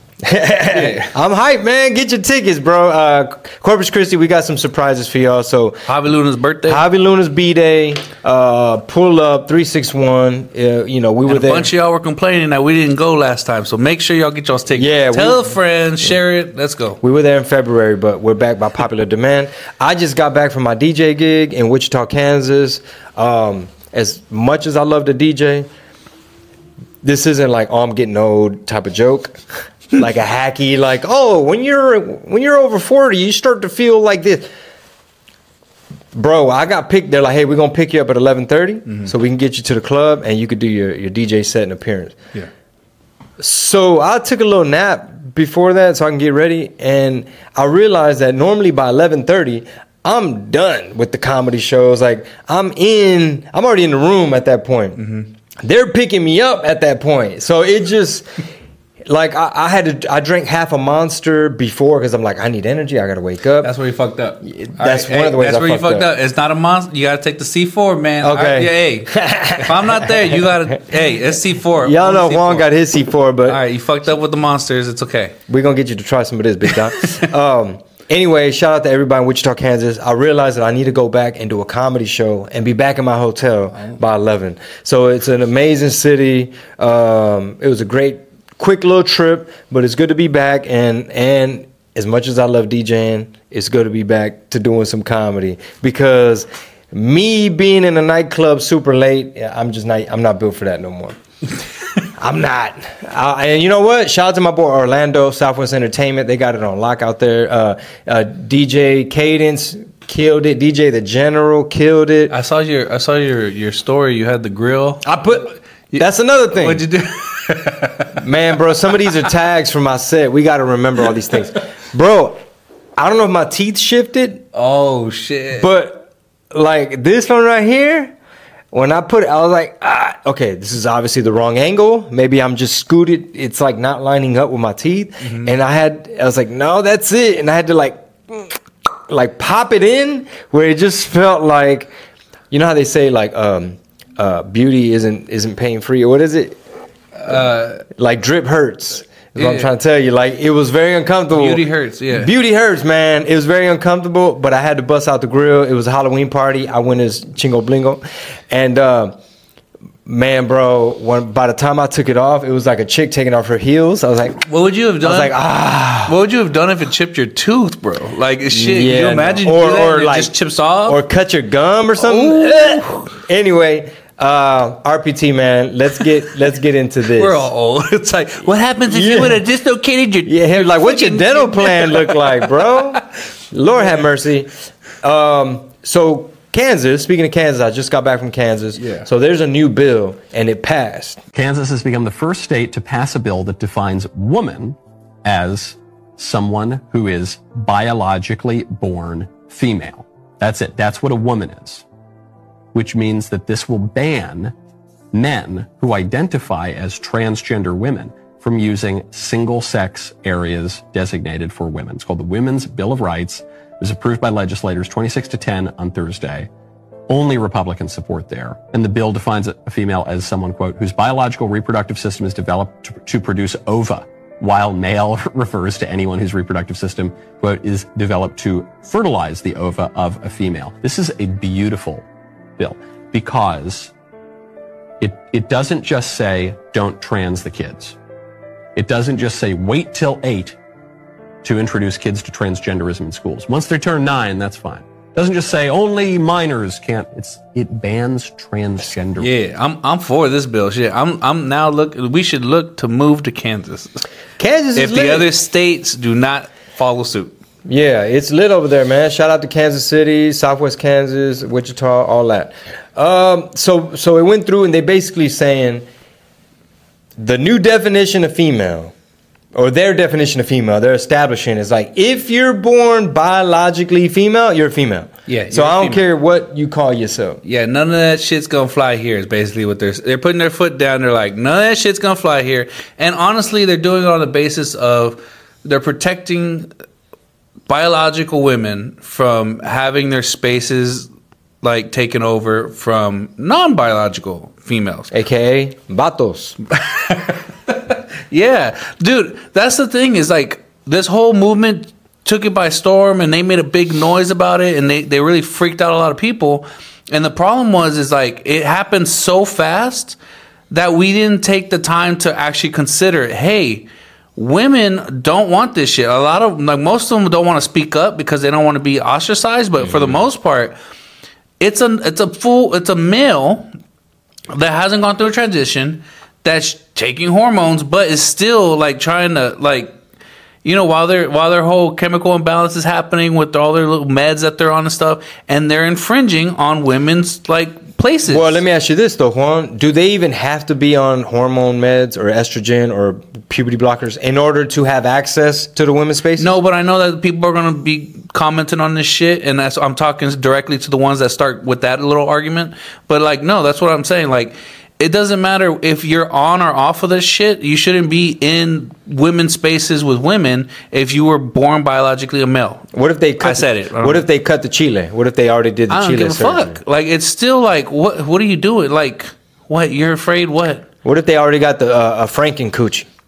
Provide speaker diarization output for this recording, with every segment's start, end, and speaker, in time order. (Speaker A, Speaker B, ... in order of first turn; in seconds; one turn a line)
Speaker A: 0.2-5.9
Speaker B: 0.7-1.1
Speaker B: 5.9-6.8
Speaker A: 6.7-11.7
Speaker B: 11.3-17.0
Speaker A: 14.8-15.5
Speaker A: 17.0-25.7
Speaker A: 27.0-29.4
Speaker A: 29.9-34.5
Speaker A: 36.1-42.2
Speaker A: 43.4-55.0
Speaker B: 55.0-55.2
Speaker A: 55.6-58.3
Speaker A: 59.1-63.7
Speaker B: 63.6-72.7
Speaker A: 64.5-66.1
Speaker A: 68.2-70.8
Speaker A: 71.8-73.6
Speaker B: 73.5-75.3
Speaker A: 75.5-101.2
Speaker A: 102.2-112.3
Speaker B: 112.3-115.2
Speaker A: 115.0-116.8
Speaker B: 115.9-118.2
Speaker A: 118.2-122.4
Speaker A: 123.0-124.4
Speaker B: 124.5-125.7
Speaker A: 125.5-128.1
Speaker A: 128.7-138.6
Speaker B: 135.2-135.5
Speaker A: 139.1-141.9
Speaker A: 142.5-146.6
Speaker B: 147.2-147.8
Speaker A: 147.9-159.2
Speaker B: 149.3-149.7
Speaker B: 151.3-152.3
Speaker A: 160.1-164.4
Speaker B: 164.5-165.4
Speaker A: 165.0-166.1
Speaker B: 166.0-171.0
Speaker A: 168.5-170.3
Speaker A: 170.9-177.4
Speaker B: 172.0-173.1
Speaker B: 177.2-182.5
Speaker A: 178.9-179.4
Speaker A: 180.2-184.5
Speaker A: 185.0-191.2
Speaker B: 188.8-189.0
Speaker C: 191.3-201.8
Speaker C: 202.7-204.5
Speaker C: 205.1-216.5
Speaker C: 217.1-232.1
Speaker C: 232.6-233.9
Speaker C: 235.0-238.0
Speaker C: 238.8-240.6
Speaker C: 241.4-249.3
Speaker B: 249.2-254.0
Speaker A: 254.4-255.2
Speaker B: 254.8-257.3
Speaker A: 257.6-265.8
Speaker A: 267.2-268.9
Speaker A: 269.5-277.4
Speaker B: 275.3-276.0
Speaker B: 277.4-286.7
Speaker B: 287.7-291.1
Speaker B: 291.6-295.1
Speaker A: 295.1-296.5
Speaker B: 296.8-310.1
Speaker B: 310.7-320.8
Speaker A: 319.8-320.2
Speaker B: 321.6-323.7
Speaker B: 324.5-329.9
Speaker B: 330.6-338.6
Speaker A: 338.3-346.5
Speaker B: 346.4-362.9
Speaker A: 362.9-366.8
Speaker B: 363.4-364.2
Speaker B: 365.9-370.9
Speaker A: 371.0-373.1